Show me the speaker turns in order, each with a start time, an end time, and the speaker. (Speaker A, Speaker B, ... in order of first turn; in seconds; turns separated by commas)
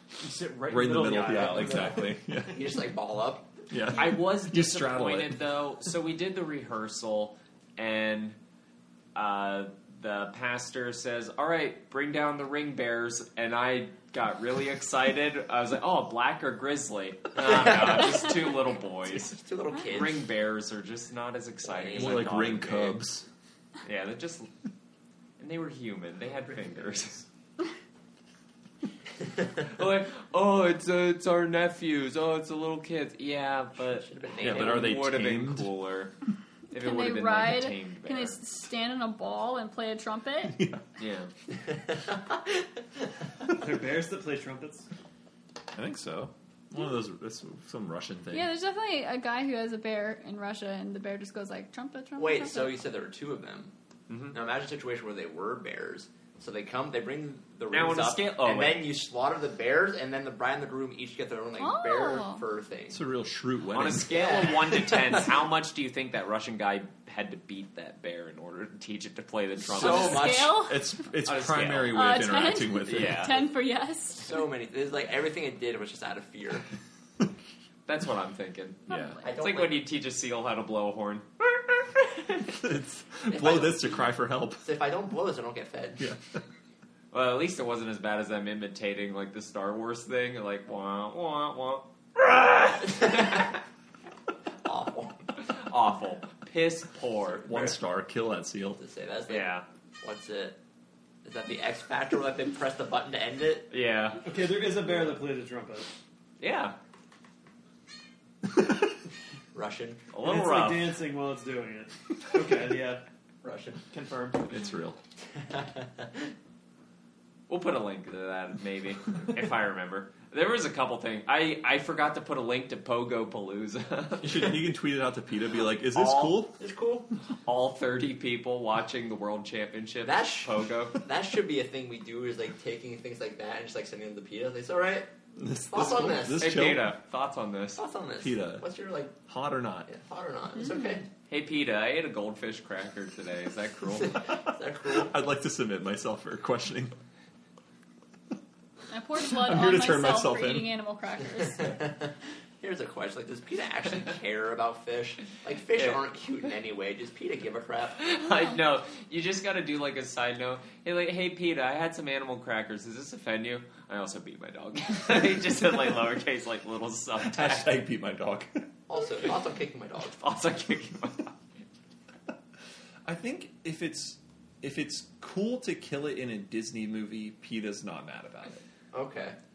Speaker A: 0.2-2.1, Speaker B: 0.7-2.8, Speaker C: 1.4-3.5, Speaker B: 3.7-5.4, Speaker D: 3.9-8.4, Speaker D: 9.1-23.0, Speaker C: 17.4-20.3, Speaker C: 21.6-22.3, Speaker B: 21.9-23.2, Speaker D: 23.8-24.5, Speaker D: 25.4-27.2, Speaker D: 29.6-36.1, Speaker C: 33.8-35.0, Speaker B: 34.4-35.7, Speaker D: 36.7-38.4, Speaker E: 36.7-40.6, Speaker B: 40.5-40.8, Speaker D: 41.0-41.3, Speaker C: 41.6-42.6, Speaker A: 43.5-44.9, Speaker B: 45.7-48.5, Speaker E: 48.3-52.8, Speaker C: 52.2-53.7, Speaker D: 54.1-54.3, Speaker C: 54.3-63.0, Speaker D: 57.7-58.9, Speaker E: 61.6-62.4, Speaker B: 62.9-64.2, Speaker D: 63.7-70.3, Speaker C: 64.0-65.3, Speaker C: 69.6-70.7, Speaker E: 69.8-70.9, Speaker B: 70.6-73.3, Speaker D: 71.2-72.1, Speaker E: 71.8-74.4, Speaker D: 72.9-73.3, Speaker C: 74.2-76.7, Speaker D: 77.8-78.9, Speaker E: 78.9-79.2, Speaker B: 78.9-79.2, Speaker C: 79.2-79.8, Speaker D: 79.4-81.6, Speaker B: 82.5-84.6, Speaker C: 83.3-84.0, Speaker C: 84.6-86.1, Speaker B: 86.0-86.4, Speaker D: 87.1-92.8, Speaker C: 92.8-93.6, Speaker C: 94.6-95.2, Speaker D: 95.4-97.7, Speaker B: 97.4-98.8, Speaker C: 98.8-100.6, Speaker D: 99.3-99.6, Speaker C: 101.2-103.7, Speaker D: 103.7-104.2, Speaker A: 104.2-105.9, Speaker D: 106.4-106.8, Speaker C: 109.5-110.1, Speaker D: 110.1-110.9, Speaker A: 110.2-113.0, Speaker C: 113.4-113.8, Speaker A: 113.9-114.5, Speaker B: 114.5-115.0, Speaker C: 115.3-116.3, Speaker D: 117.5-124.5, Speaker B: 124.2-126.5, Speaker D: 125.9-126.4, Speaker C: 126.6-127.1, Speaker D: 127.4-131.0, Speaker C: 130.0-135.1, Speaker B: 135.3-136.9, Speaker C: 135.7-136.5, Speaker D: 136.3-137.8, Speaker C: 137.8-139.2, Speaker B: 138.2-138.7, Speaker B: 139.2-139.9, Speaker C: 139.9-141.1, Speaker E: 140.5-141.0, Speaker D: 141.3-144.1, Speaker C: 143.9-145.1, Speaker B: 144.8-146.9, Speaker E: 148.9-151.8, Speaker B: 149.2-150.7, Speaker C: 151.5-158.0, Speaker D: 155.8-156.0, Speaker D: 158.0-167.8, Speaker B: 167.2-168.7, Speaker C: 168.9-170.2, Speaker D: 170.1-171.4, Speaker B: 173.0-178.6, Speaker C: 178.9-179.4